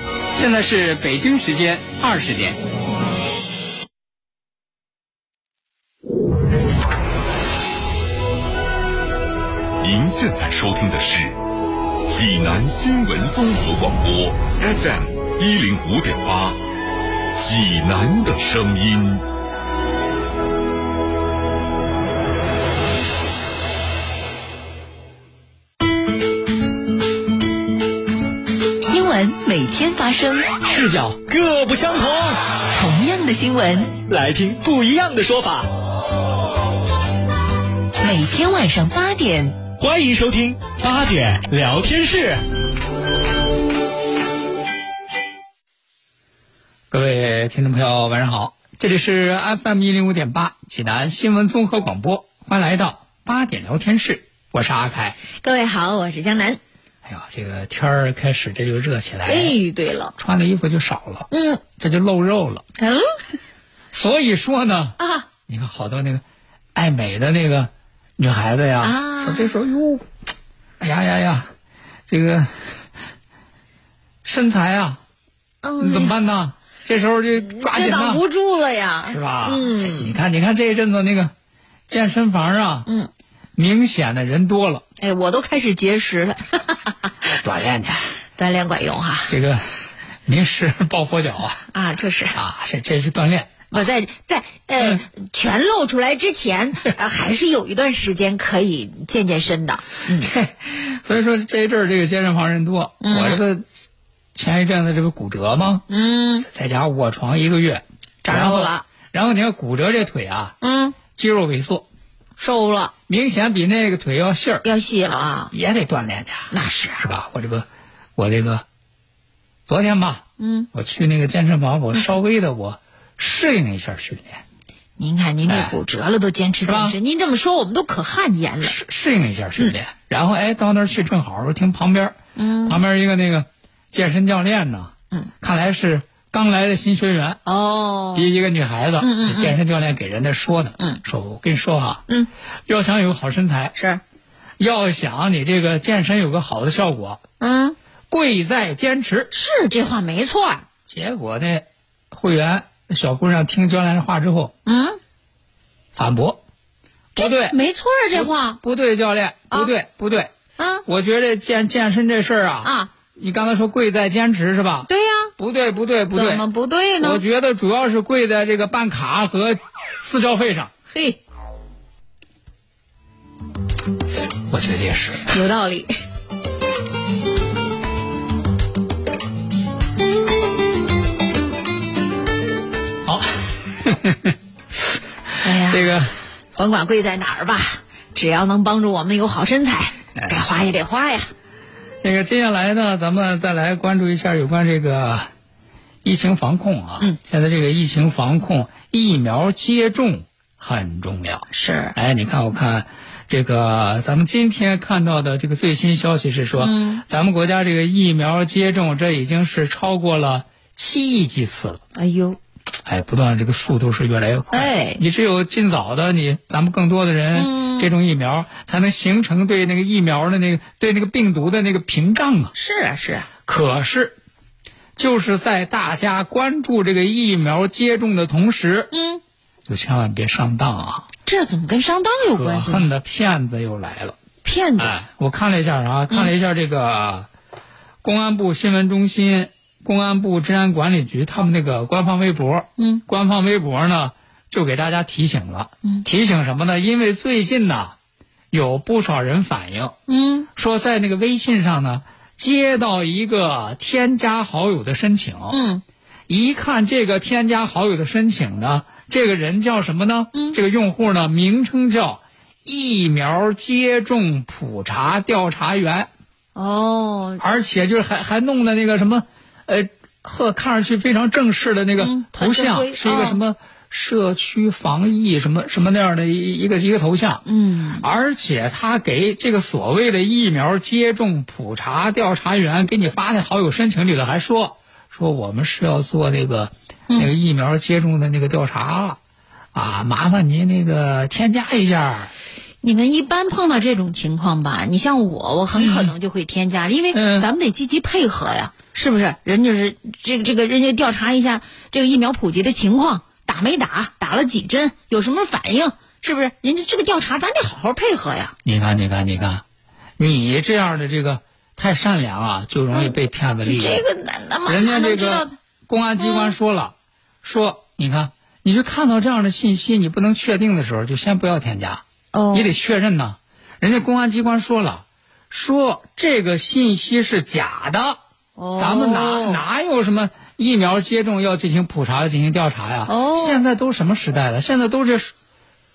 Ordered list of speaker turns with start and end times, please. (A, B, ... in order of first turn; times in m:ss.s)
0:00.4-0:02.6 A
0:09.8-0:11.4 B
0:12.1-0:16.6 B
0:17.4-0:19.2 B
0:28.8-0:30.6 C
0:30.8-0:32.4 D
0:32.7-0:34.0 C
0:34.1-0:35.6 D
0:38.0-0:39.6 C
0:39.8-0:42.3 D
0:46.9-0:55.2 A
0:55.4-0:56.6 E
0:57.0-0:59.6 A
0:59.2-1:00.1 E
1:00.2-1:02.6 A
1:01.3-1:01.6 E
1:02.8-1:03.1 E
1:03.9-1:05.0 A
1:05.0-1:05.3 E
1:05.5-1:06.2 A
1:06.7-1:10.0 A
1:08.8-1:09.5 E
1:10.8-1:11.5 A
1:12.1-1:12.6 A
1:14.2-1:15.0 A
1:15.6-1:16.2 E
1:15.8-1:18.2 A
1:17.4-1:20.1 E
1:19.1-1:21.3 A
1:21.9-1:22.9 A
1:23.6-1:24.8 A
1:25.0-1:27.0 E
1:27.2-1:28.0 A
1:28.4-1:29.3 E
1:29.3-1:29.6 A
1:30.2-1:31.6 A
1:31.7-1:32.4 E
1:32.3-1:33.7 A
1:33.7-1:40.3 E
1:40.2-1:43.6 A
1:43.0-1:43.4 E
1:44.4-1:45.8 A
1:45.9-1:46.4 E
1:46.4-1:50.5 A
1:48.2-1:48.8 E
1:50.6-1:51.0 E
1:51.1-1:51.8 A
1:52.4-1:52.9 E
1:53.1-1:54.7 A
1:54.6-1:55.5 E
1:55.5-1:58.6 A
1:56.5-1:57.0 E
1:59.7-2:04.4 A
2:00.4-2:00.7 E
2:05.0-2:08.7 E
2:05.4-2:05.8 A
2:06.6-2:07.0 A
2:08.6-2:17.4 A
2:12.4-2:12.8 E
2:17.4-2:18.3 E
2:18.1-2:22.0 A
2:19.0-2:19.5 E
2:22.7-2:23.8 A
2:23.8-2:24.0 E
2:24.6-2:27.2 A
2:27.4-2:27.8 E
2:28.1-2:29.3 A
2:29.3-2:30.6 E
2:30.9-2:34.5 A
2:34.6-2:35.0 E
2:36.0-2:36.4 A
2:37.1-2:37.6 A
2:37.2-2:38.6 E
2:38.1-2:40.3 A
2:40.6-2:40.8 E
2:40.8-2:46.4 A
2:42.6-2:42.9 E
2:44.9-2:45.3 E
2:46.1-2:47.2 E
2:47.0-2:50.7 A
2:50.9-2:51.2 E
2:54.5-2:55.4 A
2:55.3-2:55.9 E
3:03.0-3:04.3 A
3:05.4-3:05.9 E
3:05.7-3:06.1 A
3:06.5-3:11.3 E
3:12.0-3:15.3 A
3:16.0-3:31.8 A
3:21.5-3:22.0 E
3:26.6-3:27.0 E
3:31.9-3:32.4 E
3:32.8-3:42.5 A
3:34.5-3:35.0 E
3:37.3-3:37.9 E
3:42.5-3:43.3 E
3:43.4-3:44.2 A
3:45.0-3:48.9 A
3:48.9-3:49.2 E
3:49.7-3:51.1 A
3:51.2-3:52.9 E
3:52.3-3:54.2 A
3:54.4-3:55.0 E
3:54.8-3:57.3 A
3:58.0-4:08.0 A
4:02.8-4:03.0 E
4:08.5-4:10.0 A
4:10.1-4:10.5 E
4:10.6-4:15.6 A
4:15.5-4:15.8 E
4:16.3-4:26.1 A
4:26.5-4:27.4 E
4:27.4-4:37.4 A
4:32.0-4:33.4 E
4:37.4-4:38.0 E
4:38.0-4:49.2 A
4:49.7-4:52.3 A
4:52.8-5:08.5 E
4:55.7-4:56.1 A
4:57.1-4:57.5 A
5:08.6-5:09.6 A
5:10.2-5:14.0 A
5:13.6-5:15.6 E
5:14.7-5:28.2 A
5:16.2-5:16.6 E
5:22.3-5:22.7 E
5:28.6-5:29.6 E
5:28.8-5:35.3 A
5:33.1-5:33.6 E